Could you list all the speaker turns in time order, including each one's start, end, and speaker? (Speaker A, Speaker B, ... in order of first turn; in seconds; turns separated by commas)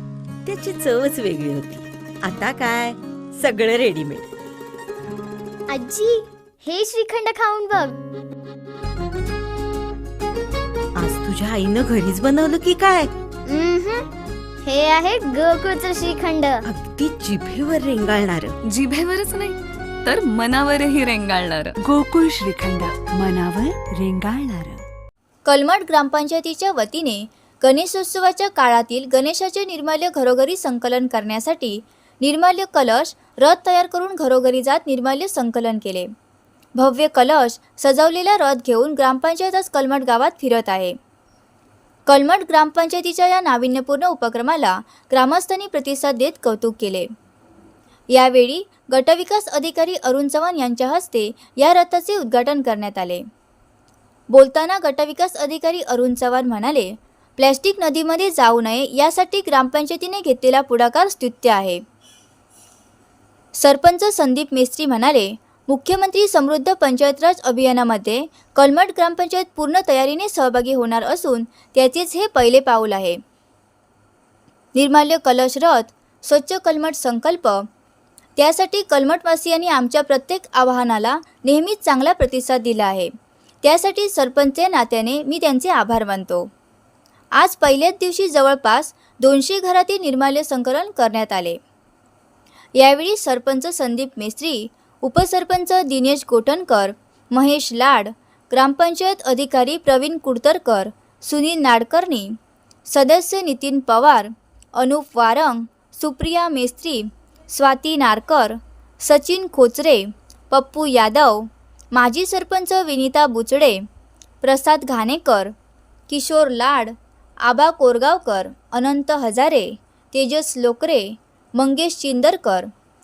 Speaker A: 0.4-4.3, Speaker B: 5.7-8.0, Speaker A: 10.9-13.1, Speaker B: 13.4-14.1, Speaker B: 14.6-16.6, Speaker A: 16.6-18.6, Speaker C: 18.6-21.7, Speaker D: 21.8-24.8, Speaker E: 25.4-36.1, Speaker E: 36.8-41.0, Speaker E: 42.1-47.1, Speaker E: 48.1-53.2, Speaker E: 54.3-61.8, Speaker E: 63.6-73.2, Speaker E: 74.8-77.7, Speaker E: 78.4-83.1, Speaker E: 83.6-86.5, Speaker E: 87.4-91.6, Speaker E: 92.8-102.3, Speaker E: 102.9-113.8, Speaker E: 114.4-115.5, Speaker E: 116.1-116.9, Speaker E: 117.5-122.7